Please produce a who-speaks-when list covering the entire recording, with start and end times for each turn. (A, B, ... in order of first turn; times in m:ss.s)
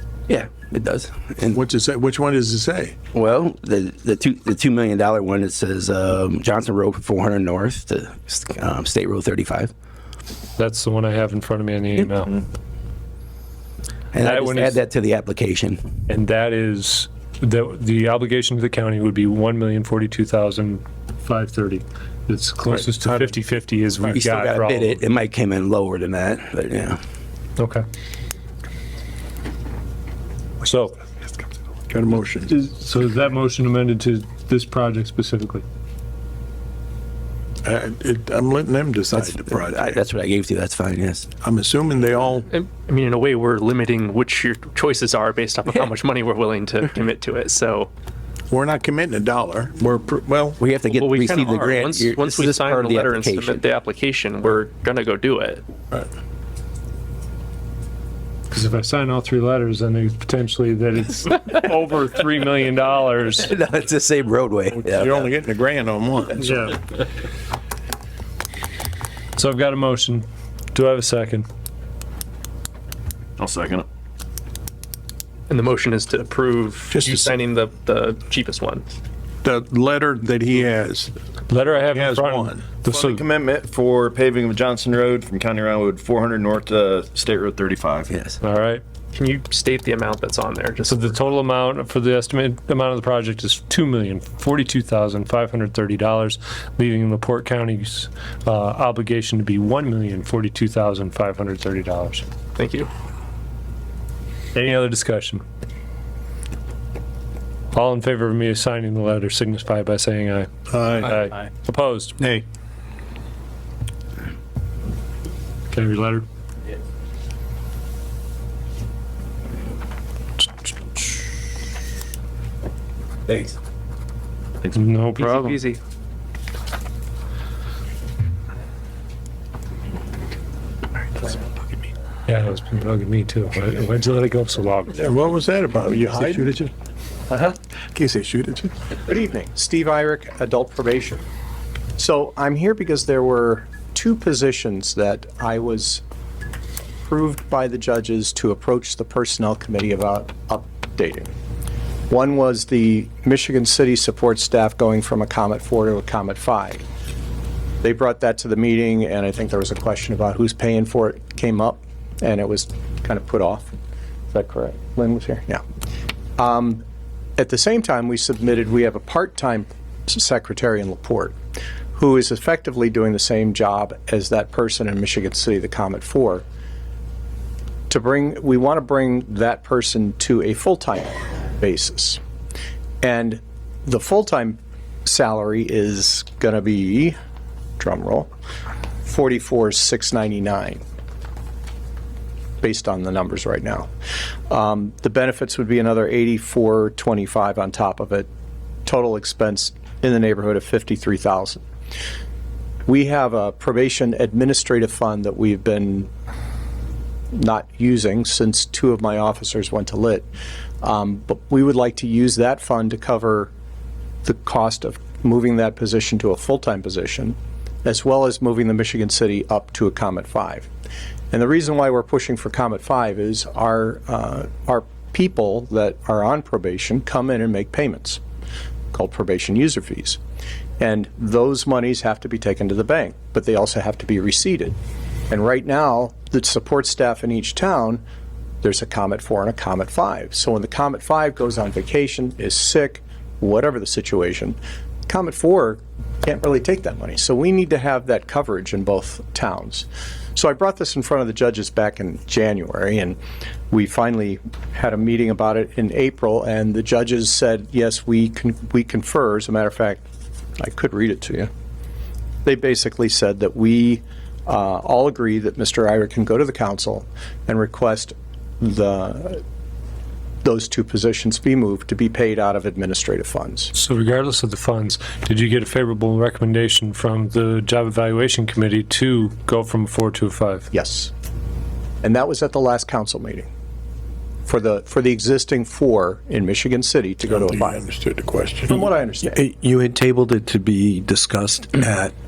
0:00.3-0:01.6 A
0:01.5-0:03.0 B
0:03.1-0:09.7 A
0:10.6-0:12.4 C
0:14.1-0:15.8 A
0:14.2-0:14.8 C
0:16.1-0:25.0 C
0:24.1-0:27.0 A
0:27.6-0:27.8 C
0:30.6-0:31.0 C
0:31.9-0:32.5 B
0:32.5-0:35.6 C
0:37.6-0:40.0 B
0:39.1-0:41.3 A
0:41.4-0:42.5 B
0:42.5-0:47.9 D
0:48.5-0:50.6 B
0:50.6-0:53.6 A
0:51.0-0:55.6 D
0:58.5-1:03.5 C
1:03.4-1:05.3 A
1:04.8-1:06.5 B
1:06.4-1:06.8 C
1:09.4-1:11.5 C
1:13.4-1:13.8 E
1:15.5-1:18.9 D
1:16.9-1:17.4 B
1:19.4-1:21.1 B
1:21.5-1:23.2 C
1:21.9-1:22.7 B
1:22.8-1:28.2 E
1:28.1-1:28.4 A
1:28.4-1:28.8 C
1:29.1-1:31.1 D
1:30.9-1:42.3 C
1:42.6-1:42.9 D
1:44.6-1:45.4 C
1:47.7-1:52.2 C
1:50.7-1:51.2 B
1:55.7-1:56.2 C
2:04.7-2:05.6 C
2:05.2-2:05.8 D
2:12.3-2:15.0 C
2:15.0-2:16.7 B
2:17.9-2:18.7 B
2:19.0-2:21.2 F
2:22.0-2:26.0 F
2:27.0-2:31.3 F
2:32.1-2:36.8 F
2:37.8-2:43.7 F
2:44.3-2:45.6 F
2:46.4-2:46.8 F
2:47.4-2:51.4 F
2:52.0-2:56.4 F
2:57.9-3:02.2 F
3:03.0-3:07.2 F
3:07.8-3:08.3 F
3:09.0-3:10.8 F
3:12.6-3:13.9 F
3:14.5-3:18.3 F
3:18.9-3:21.6 F
3:22.9-3:26.1 F
3:27.3-3:30.3 F
3:30.8-3:33.5 F
3:34.2-3:40.7 F
3:41.3-3:48.2 F
3:48.9-3:50.2 F
3:50.8-3:54.8 F
3:55.3-3:58.0 F
3:58.6-4:13.2 F
4:13.7-4:20.1 F
4:20.6-4:21.5 F
4:22.4-4:29.4 F
4:30.4-4:33.7 F
4:33.7-4:40.7 C
4:40.7-4:41.1 F
4:42.0-4:43.5 F
4:44.5-4:47.8 F
4:47.4-4:48.8 B
4:48.7-4:49.4 F
4:49.3-4:52.1 G